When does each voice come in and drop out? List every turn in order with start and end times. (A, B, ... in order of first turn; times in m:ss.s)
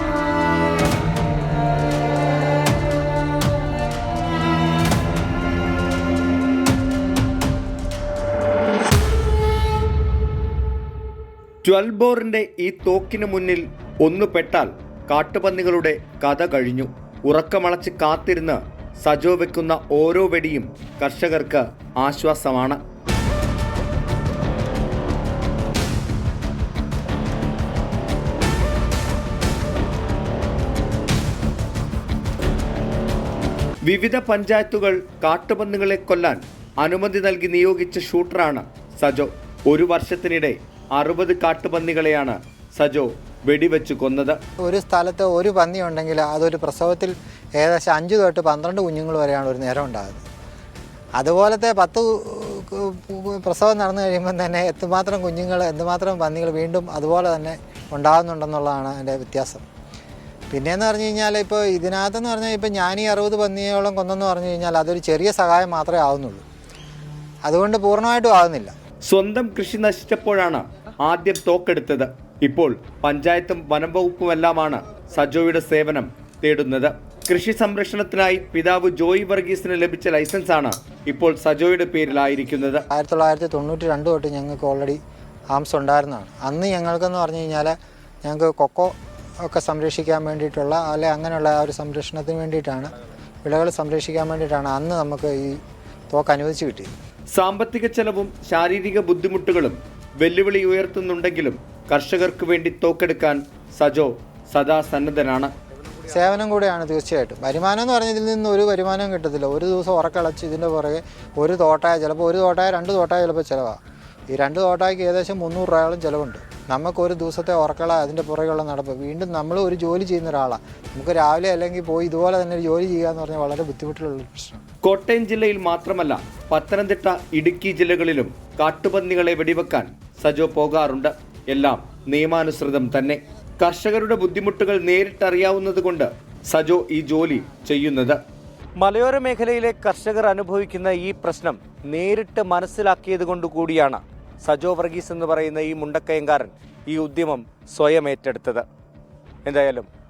0:11.6-0:22.8 A
0:33.8-0:44.4 A
0:44.6-0:50.2 B
0:51.2-0:59.6 B
1:00.5-1:06.4 B
1:07.5-1:08.7 B
1:09.0-1:22.8 A
1:22.9-1:25.0 B
1:25.6-1:35.6 B
1:36.1-1:36.9 B
1:37.3-1:45.5 A
1:46.1-1:53.8 B
1:54.3-2:04.6 B
2:04.8-2:18.2 A
2:18.8-2:28.6 A
2:29.4-2:29.9 A